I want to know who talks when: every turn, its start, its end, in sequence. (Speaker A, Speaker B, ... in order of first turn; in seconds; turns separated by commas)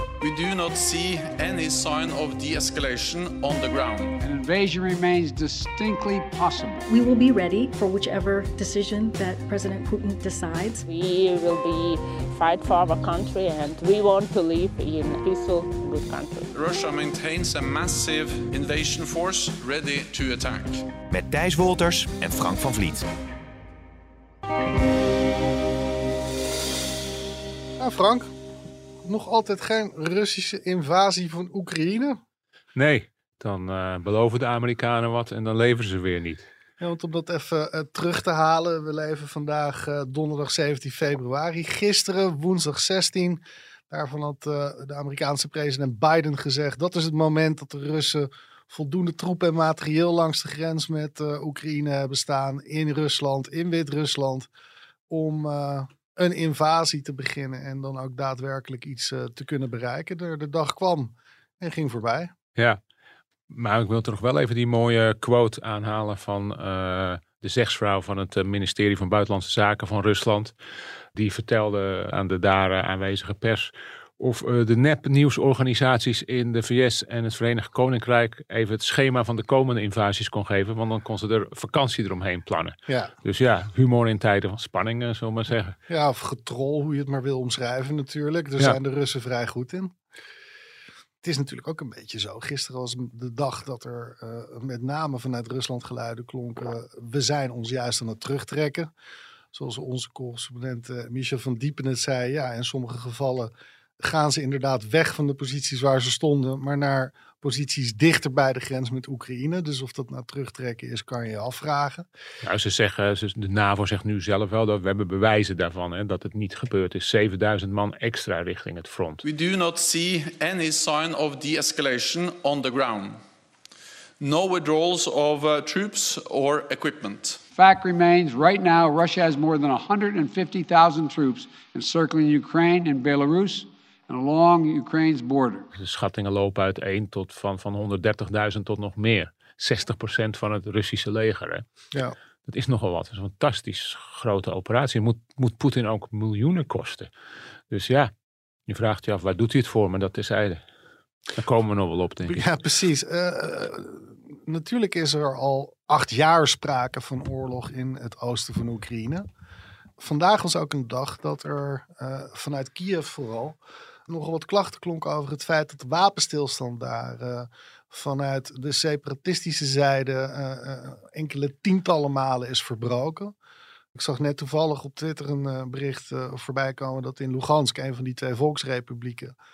Speaker A: 0.2-4.2, Speaker B: 4.2-6.9, Speaker C: 6.9-10.8, Speaker D: 10.9-16.5, Speaker A: 16.5-20.9, Speaker E: 21.1-23.1, Speaker F: 27.8-28.3, Speaker F: 29.0-32.2, Speaker G: 32.7-36.5, Speaker F: 36.8-54.5, Speaker F: 55.1-62.3, Speaker G: 63.5-70.5, Speaker G: 71.2-85.8, Speaker F: 85.9-89.9, Speaker F: 91.2-98.9, Speaker F: 99.5-112.1, Speaker G: 112.4-119.2, Speaker A: 119.2-123.2, Speaker A: 124.2-127.4, Speaker B: 127.5-135.7, Speaker G: 135.8-141.6, Speaker G: 142.5-147.1, Speaker G: 147.7-148.1, Speaker G: 148.7-150.6, Speaker G: 151.3-152.4, Speaker F: 152.3-159.3, Speaker F: 160.0-173.3, Speaker F: 173.9-179.4